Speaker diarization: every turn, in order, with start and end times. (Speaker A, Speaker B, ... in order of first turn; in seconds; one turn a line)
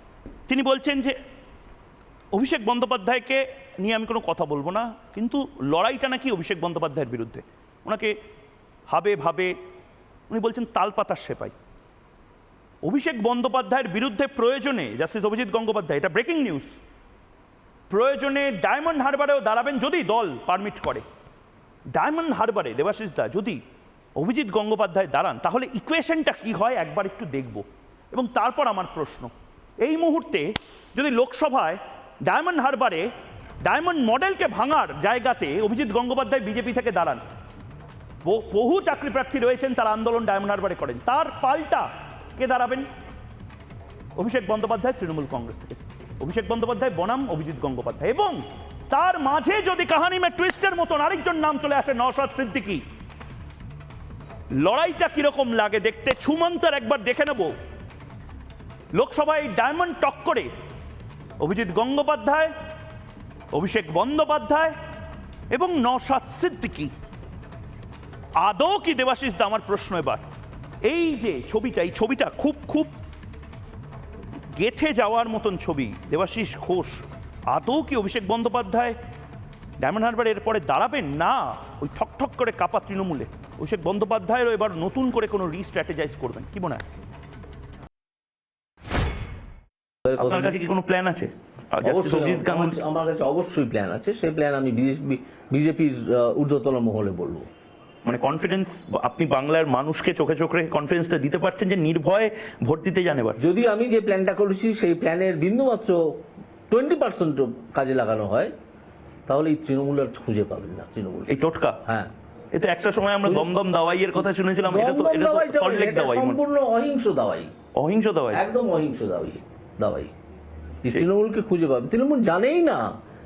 Speaker A: 0.5-1.1
Speaker A: 2.3-8.1
Speaker A: 8.9-9.5
Speaker A: 10.3-11.5
Speaker A: 12.8-16.7
Speaker A: 17.9-21.0
Speaker A: 21.9-23.6
Speaker A: 24.2-33.1
Speaker A: 33.6-37.2
Speaker A: 38.2-42.9
Speaker A: 44.2-52.8
Speaker A: 54.6-57.5
Speaker A: 58.9-60.5
Speaker A: 61.4-62.5
Speaker A: 63.5-64.7
Speaker A: 65.5-66.9
Speaker A: 68.4-70.2
Speaker A: 70.9-72.9
Speaker A: 74.6-78.9
Speaker A: 79.8-86.8
Speaker B: 90.1-90.5
Speaker A: 90.1-92.8
Speaker B: 91.8-97.5
Speaker A: 98.0-103.4
Speaker B: 103.4-106.0
Speaker B: 106.7-108.5
Speaker B: 109.3-112.1
Speaker A: 111.3-111.8
Speaker A: 112.5-116.4
Speaker B: 113.2-113.5
Speaker B: 114.7-117.5
Speaker A: 117.8-118.4
Speaker B: 118.3-120.1
Speaker B: 120.8-122.8